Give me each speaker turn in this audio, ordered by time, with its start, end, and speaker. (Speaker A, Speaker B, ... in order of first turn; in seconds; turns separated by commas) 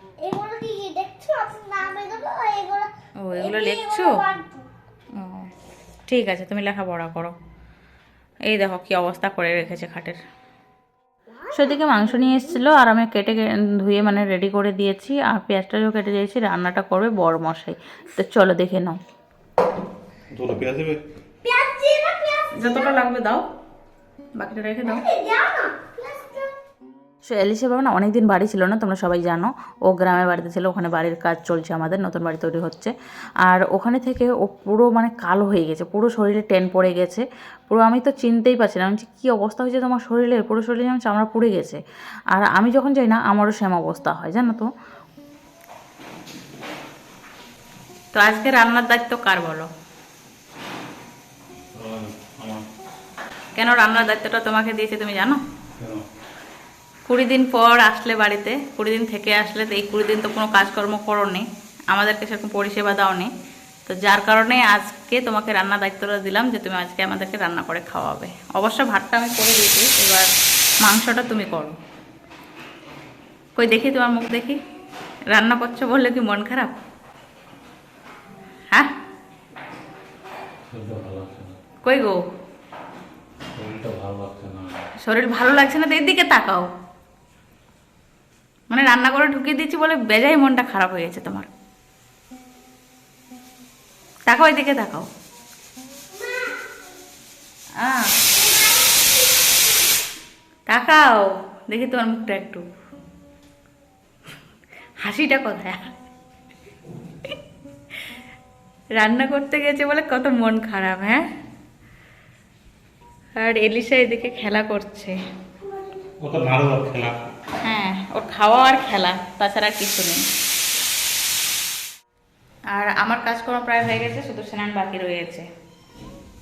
Speaker A: 0.2-4.7, Speaker B: 3.2-4.2, Speaker B: 5.2-5.5, Speaker B: 6.1-7.3, Speaker B: 8.5-10.2, Speaker A: 11.4-11.7, Speaker B: 11.5-19.0, Speaker C: 20.3-21.0, Speaker A: 21.4-23.0, Speaker B: 22.5-23.4, Speaker B: 24.4-25.1, Speaker A: 24.9-26.5, Speaker B: 27.3-41.8, Speaker B: 42.3-44.7, Speaker B: 48.1-49.7, Speaker C: 51.7-52.7, Speaker B: 53.5-55.4, Speaker C: 55.8-56.0, Speaker B: 57.1-63.3, Speaker B: 63.9-70.3, Speaker B: 70.8-71.8, Speaker B: 73.6-74.6, Speaker B: 75.3-76.8, Speaker C: 80.7-81.6, Speaker B: 81.8-82.2, Speaker C: 83.6-84.8, Speaker B: 85.0-86.7, Speaker B: 88.7-91.5, Speaker B: 94.3-95.1, Speaker A: 96.1-96.6, Speaker B: 97.8-98.2, Speaker A: 98.3-99.9, Speaker B: 100.7-102.7, Speaker B: 105.0-105.9, Speaker B: 109.0-111.2, Speaker B: 113.4-115.2, Speaker C: 116.2-117.2, Speaker B: 117.6-120.2, Speaker B: 122.7-125.5